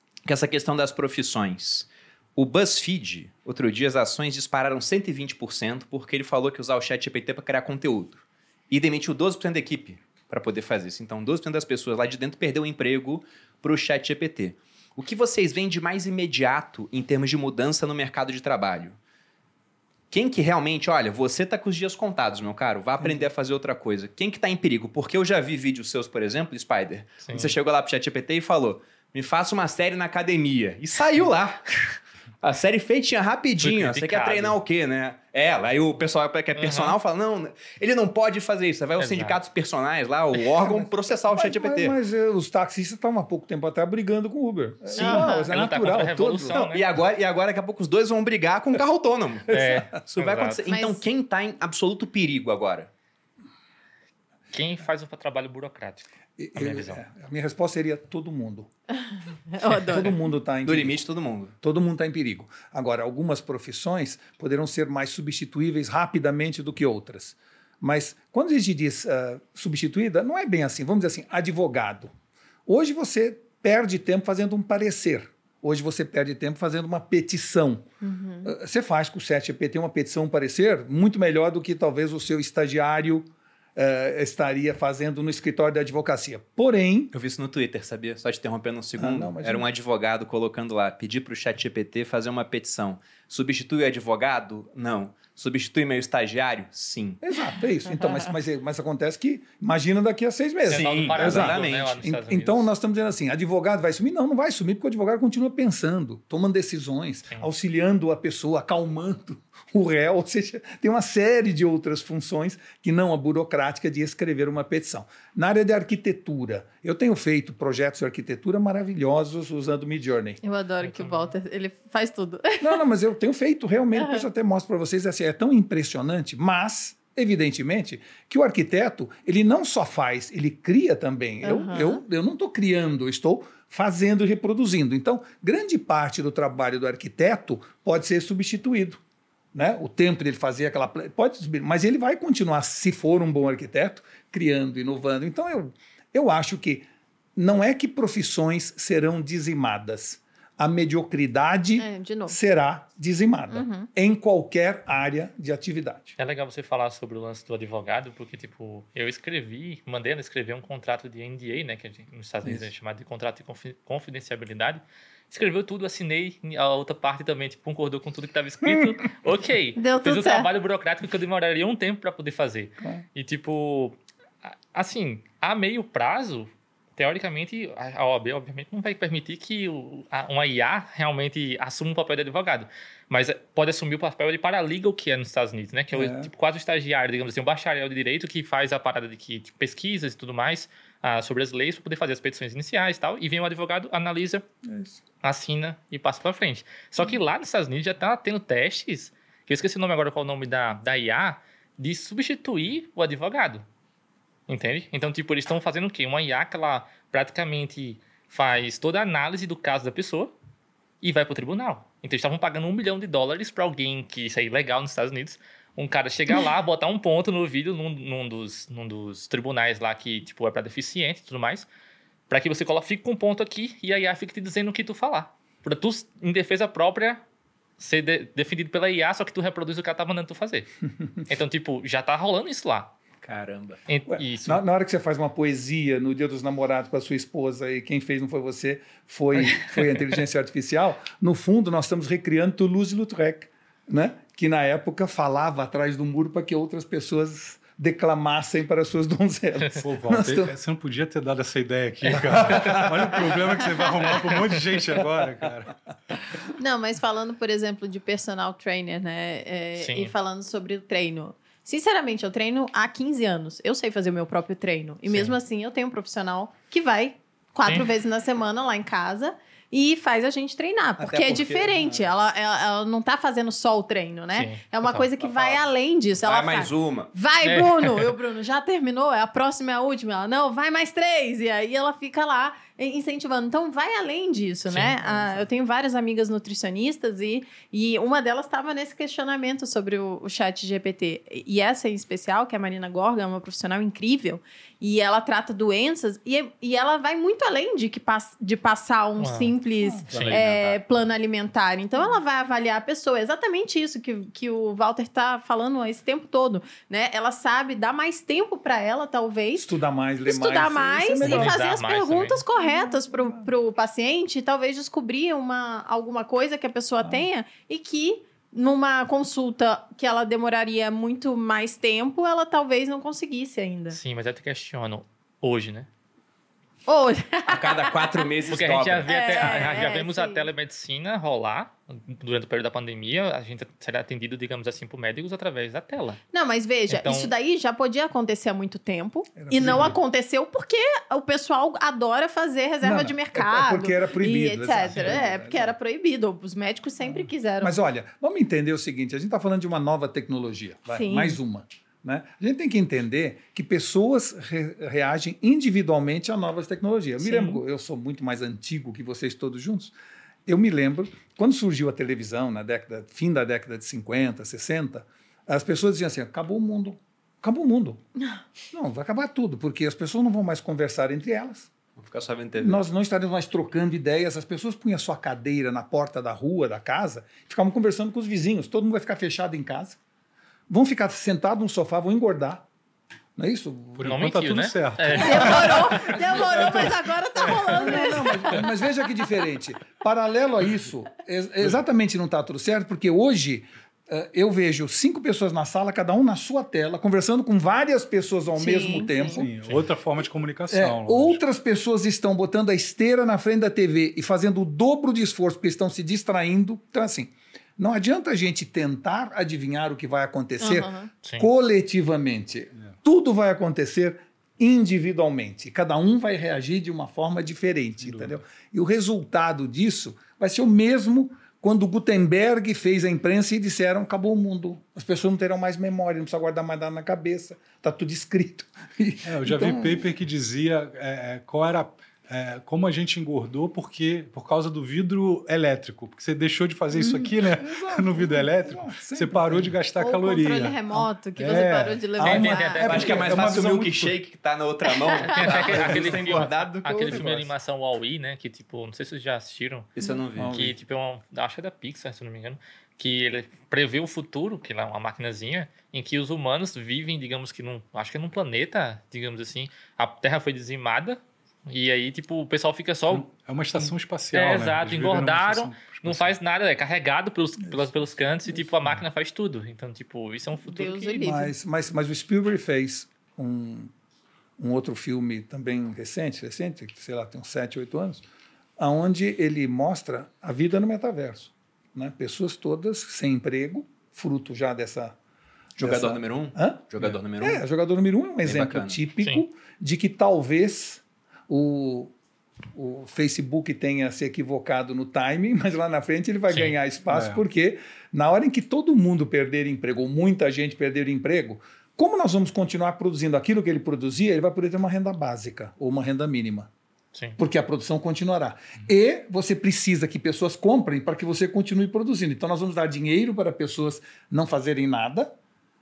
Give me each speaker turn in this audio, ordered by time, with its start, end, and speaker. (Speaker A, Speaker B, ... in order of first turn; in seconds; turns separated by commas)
Speaker A: 0.2-19.0, Speaker A: 20.1-42.0, Speaker B: 23.0-23.3, Speaker C: 27.2-27.5, Speaker C: 33.6-34.5, Speaker C: 36.6-37.0, Speaker C: 39.0-39.4, Speaker B: 40.6-46.7, Speaker C: 44.9-46.9, Speaker D: 45.0-45.5, Speaker A: 46.5-52.9, Speaker C: 49.5-50.6, Speaker B: 49.5-49.8, Speaker D: 50.7-51.0, Speaker C: 54.5-57.0, Speaker B: 56.4-58.7, Speaker D: 59.5-60.1, Speaker B: 59.9-61.0, Speaker A: 60.6-61.5, Speaker B: 61.6-72.1, Speaker B: 72.7-77.9, Speaker D: 78.0-78.5, Speaker B: 78.4-87.1, Speaker A: 87.1-97.2, Speaker B: 89.0-89.7, Speaker B: 97.2-120.4, Speaker A: 100.7-102.0, Speaker C: 100.7-102.7, Speaker E: 101.0-101.5, Speaker D: 120.4-122.8, Speaker C: 120.8-121.3, Speaker B: 122.6-139.0, Speaker D: 131.4-132.0, Speaker B: 139.5-156.1, Speaker D: 151.8-152.4, Speaker D: 153.5-153.9, Speaker C: 156.2-174.0, Speaker D: 169.8-170.5, Speaker C: 174.7-194.4, Speaker B: 185.9-186.3, Speaker B: 194.7-195.0, Speaker C: 195.2-203.6, Speaker C: 204.5-210.3, Speaker C: 211.0-221.7, Speaker C: 222.3-227.2, Speaker C: 227.8-230.7, Speaker C: 231.2-232.9, Speaker A: 233.2-233.8, Speaker C: 233.9-234.6, Speaker B: 234.1-250.5, Speaker E: 249.8-255.8, Speaker B: 252.4-253.1, Speaker D: 256.5-309.7, Speaker C: 259.8-260.1, Speaker C: 265.1-265.4, Speaker A: 271.0-271.9, Speaker B: 271.4-271.8, Speaker C: 274.3-275.1, Speaker A: 275.2-275.6, Speaker A: 276.2-277.1, Speaker C: 277.4-278.1, Speaker C: 284.7-284.9, Speaker C: 299.2-299.5, Speaker B: 299.8-300.5, Speaker C: 300.1-300.5, Speaker A: 300.3-300.7, Speaker B: 309.6-311.6, Speaker D: 310.3-324.0, Speaker C: 311.2-312.4, Speaker B: 312.6-313.5, Speaker C: 323.9-325.9, Speaker D: 326.9-328.1, Speaker A: 327.4-329.7, Speaker C: 328.5-336.2, Speaker D: 329.1-330.4, Speaker D: 336.3-347.8, Speaker C: 336.9-337.3, Speaker B: 339.4-340.0, Speaker B: 342.8-345.7, Speaker C: 344.9-345.2, Speaker B: 347.0-359.9, Speaker D: 350.9-351.4, Speaker D: 357.2-357.6, Speaker B: 360.4-368.0, Speaker B: 368.7-371.7, Speaker A: 372.0-372.8, Speaker B: 372.6-380.0, Speaker B: 380.7-382.6, Speaker B: 383.4-384.2, Speaker E: 384.0-387.8, Speaker C: 384.0-385.9, Speaker D: 385.2-388.6, Speaker B: 385.5-386.7, Speaker B: 387.6-399.5, Speaker D: 398.6-399.5, Speaker E: 399.3-401.4, Speaker B: 400.7-430.1, Speaker D: 410.6-411.1, Speaker C: 411.2-411.5, Speaker E: 418.0-418.4, Speaker E: 429.2-444.1, Speaker B: 436.9-439.8, Speaker D: 440.0-443.1, Speaker C: 442.2-443.1, Speaker A: 442.8-447.5, Speaker D: 444.8-445.8, Speaker C: 445.3-449.9, Speaker A: 449.9-450.6, Speaker B: 450.4-450.8, Speaker C: 450.5-463.3, Speaker E: 463.1-466.3, Speaker C: 463.8-471.2, Speaker D: 470.6-471.5, Speaker B: 471.2-473.9, Speaker B: 474.6-478.2, Speaker B: 478.8-485.1, Speaker A: 485.8-487.6, Speaker B: 485.8-492.1, Speaker A: 488.4-489.0, Speaker B: 492.7-506.7, Speaker E: 497.1-497.4, Speaker B: 507.4-515.3